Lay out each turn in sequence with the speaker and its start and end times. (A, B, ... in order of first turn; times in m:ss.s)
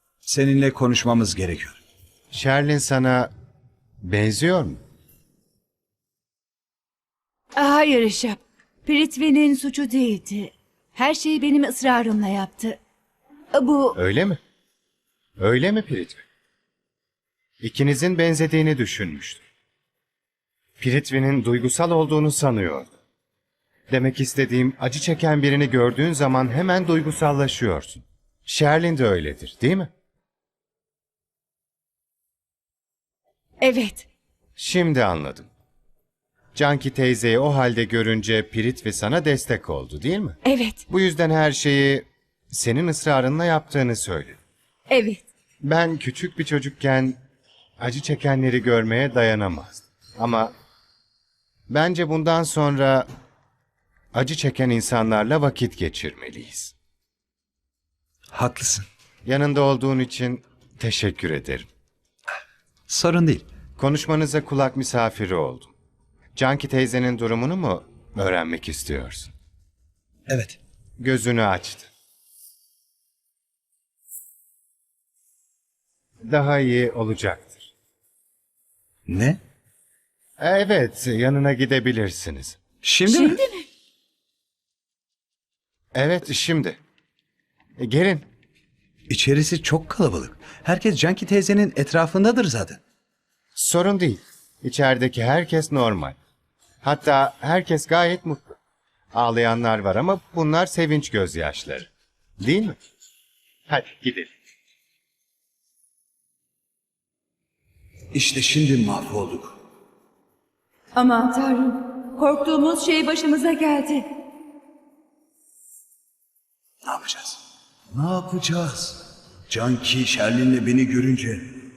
0:00.2-0:01.8 A
0:02.3-0:03.3 B
0:04.0-0:04.8 B
0:07.6-0:12.8 C
0:13.5-0:14.0 C
0:13.9-0:14.4 B
0:15.4-0:16.2 B
0:17.6-0:19.4 B
0:20.8-0:22.9 B
0:23.9-0:29.9 B
0:33.6-0:34.0 C
0:34.6-0:35.5 B
0:36.5-0:44.4 B
0:40.5-0:40.8 C
0:45.6-0:47.2 B
0:47.8-0:50.5 B
0:51.7-0:53.1 B
0:54.1-0:56.7 B
0:58.3-0:58.9 A
0:59.2-1:01.7 B
1:02.9-1:03.4 A
1:03.8-1:05.7 B
1:06.3-1:09.3 B
1:10.3-1:10.6 A
1:11.0-1:11.9 B
1:16.2-1:17.7 B
1:19.1-1:19.4 A
1:20.4-1:22.6 B
1:22.8-1:23.4 A
1:23.1-1:23.6 C
1:25.9-1:26.8 B
1:27.8-1:28.2 B
1:29.1-1:32.8 A
1:33.5-1:36.2 B
1:36.8-1:38.4 B
1:39.1-1:41.9 B
1:42.4-1:42.8 B
1:43.7-1:44.3 B
1:48.1-1:49.5 A
1:50.9-1:54.0 C
1:56.8-1:57.4 A
1:57.9-2:01.5 A